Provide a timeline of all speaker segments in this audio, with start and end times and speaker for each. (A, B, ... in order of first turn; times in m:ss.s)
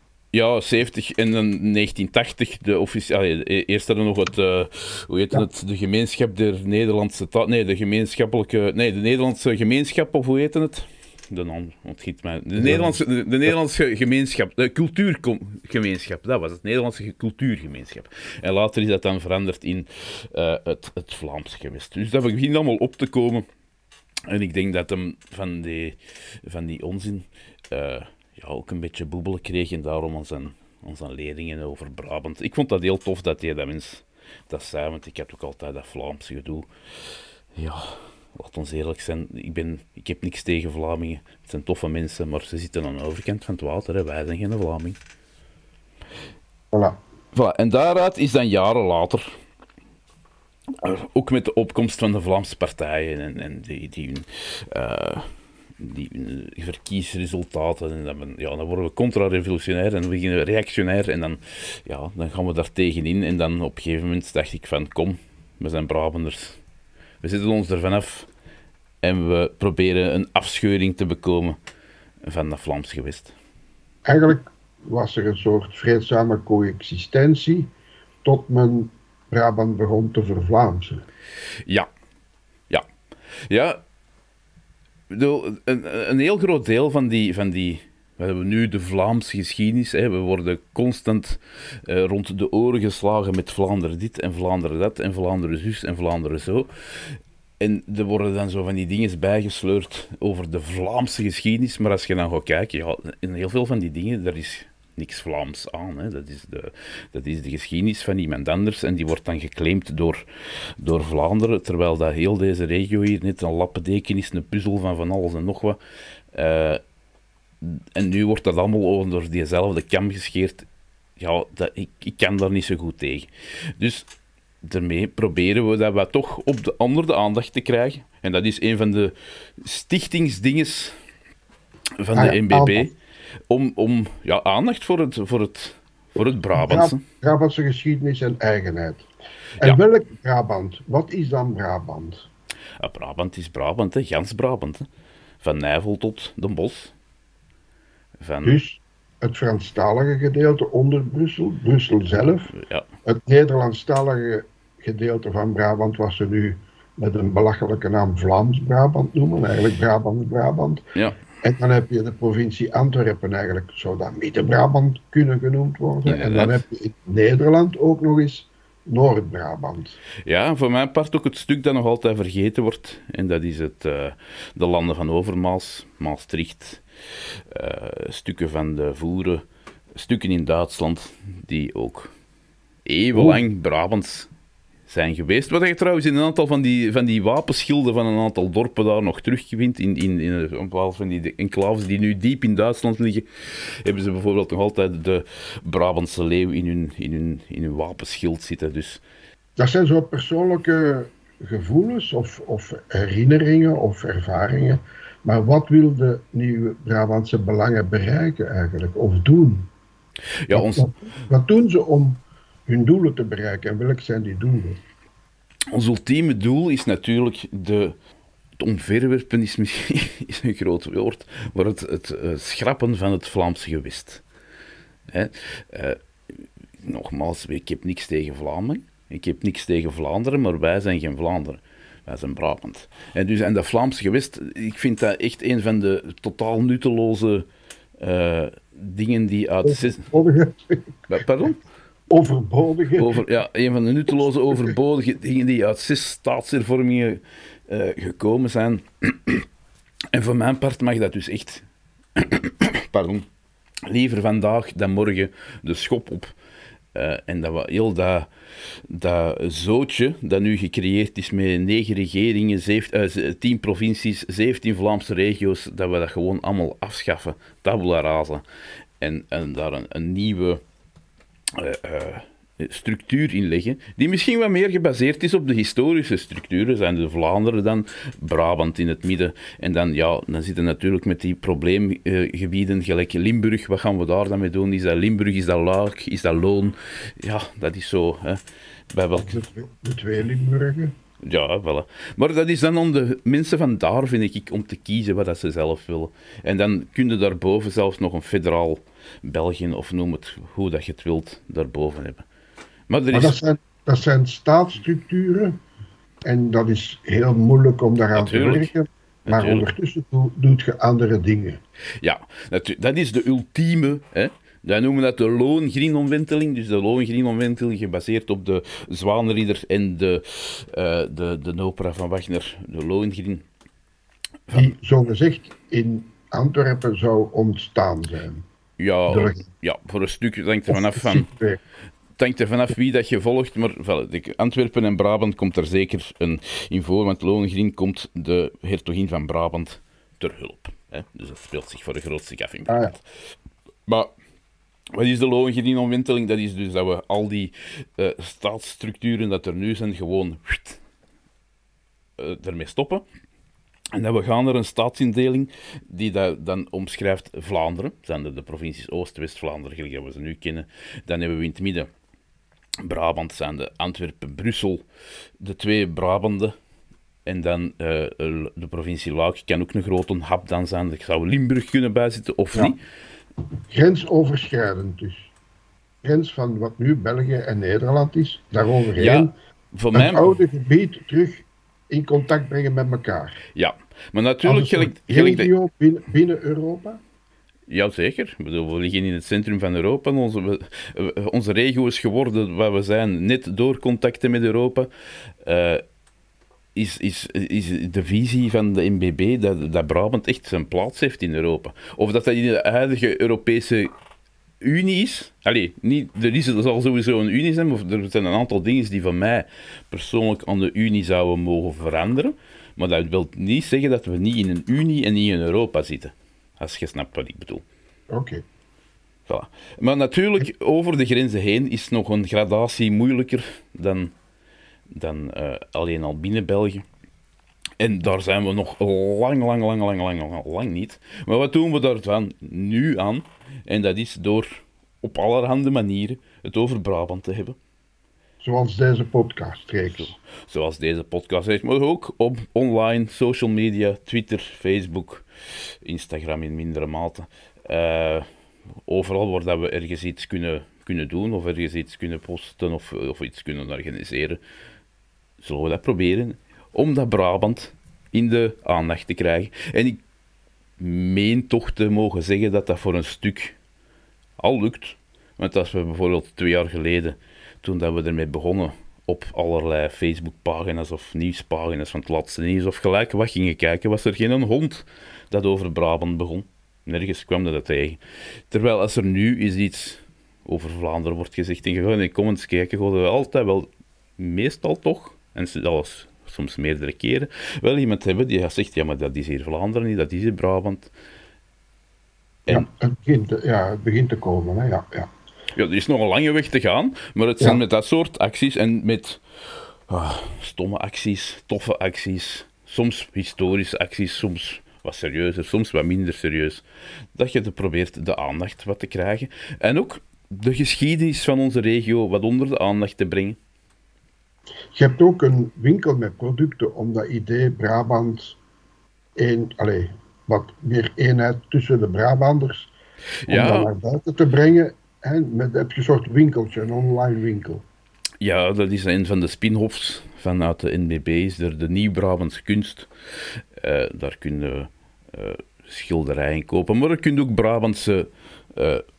0:00.3-0:23.4 A
0:12.6-0:13.0 B
0:24.3-0:36.7 A
0:37.5-0:45.0 A
0:46.7-0:47.0 B
0:47.3-0:49.3 A
0:50.8-1:06.6 A
1:07.2-1:08.3 A
1:09.0-1:11.6 A
1:12.2-1:13.3 A
1:14.0-1:17.7 B
1:18.2-1:21.0 B
1:23.5-1:23.8 A
1:25.1-1:50.2 A
1:50.8-1:55.8 A
1:56.3-1:56.8 A
1:57.6-2:00.7 A
2:01.2-2:04.1 A
2:04.6-2:11.0 A
2:12.0-2:12.9 A
2:12.1-2:12.9 B
2:13.5-2:17.0 A
2:16.6-2:19.1 B
2:19.6-2:22.3 B
2:22.8-2:24.9 A
2:25.4-2:26.9 A
2:28.2-2:28.6 A
2:28.4-2:32.5 B
2:32.6-2:32.8 A
2:33.0-2:40.8 B
2:41.4-2:50.0 B
2:46.0-2:46.6 A
2:50.2-2:56.8 A
2:57.5-2:59.4 A
3:00.0-3:02.1 A
3:02.8-3:04.3 A
3:03.1-3:03.4 B
3:04.9-3:19.0 A
3:19.6-3:29.7 B
3:30.5-3:30.9 A
3:30.5-3:34.8 B
3:35.7-3:37.9 A
3:38.6-3:44.2 A
3:45.1-3:57.4 A
3:58.0-4:00.1 A
3:59.6-4:00.9 B
4:01.1-4:01.6 A
4:02.1-4:03.2 B
4:03.0-4:09.4 A
4:10.1-4:11.6 A
4:12.2-4:13.2 A
4:13.8-4:16.3 A
4:16.9-4:18.3 A
4:18.9-4:28.4 A
4:29.0-4:30.6 A
4:31.5-4:48.4 A
4:48.9-4:49.4 A
4:49.1-4:51.0 B
4:51.2-5:02.2 A
5:02.9-5:03.4 A
5:03.1-5:05.6 B
5:06.2-5:11.6 B
5:08.1-5:08.7 A
5:09.2-5:09.6 A
5:12.0-5:23.4 A
5:24.5-5:28.4 B
5:28.8-5:31.3 A
5:29.1-5:29.4 B
5:30.7-5:31.6 B
5:32.2-5:43.0 A
5:42.7-5:42.9 B
5:43.9-5:44.1 A
5:44.9-5:50.8 A
5:52.2-5:53.0 A
5:53.9-6:01.9 A
6:02.8-6:04.8 A
6:05.4-6:06.5 A
6:07.2-6:12.8 A
6:13.7-6:15.3 B
6:16.0-6:19.3 B
6:19.0-6:20.4 A
6:19.9-6:23.4 B
6:23.6-6:25.5 A
6:24.4-6:27.0 B
6:27.7-6:34.9 A
6:35.4-6:35.8 A
6:36.7-6:43.9 A
6:44.6-6:57.6 A
6:58.1-6:58.4 B
6:59.3-7:04.1 A
7:04.9-7:06.8 A
7:07.8-7:17.6 A
7:18.4-7:20.1 B
7:19.8-7:25.2 A
7:25.8-7:28.3 A
7:28.8-7:34.4 A
7:35.4-7:40.0 A
7:40.8-7:43.6 A
7:44.4-7:58.0 A
7:58.5-8:10.9 A
8:12.5-8:15.1 B
8:15.5-8:19.2 A
8:19.9-8:26.6 A
8:27.1-8:33.4 A
8:34.7-8:38.4 B
8:39.2-8:42.7 B
8:43.2-8:43.7 A
8:43.3-8:47.6 B
8:48.2-8:52.9 A
8:53.6-8:58.8 A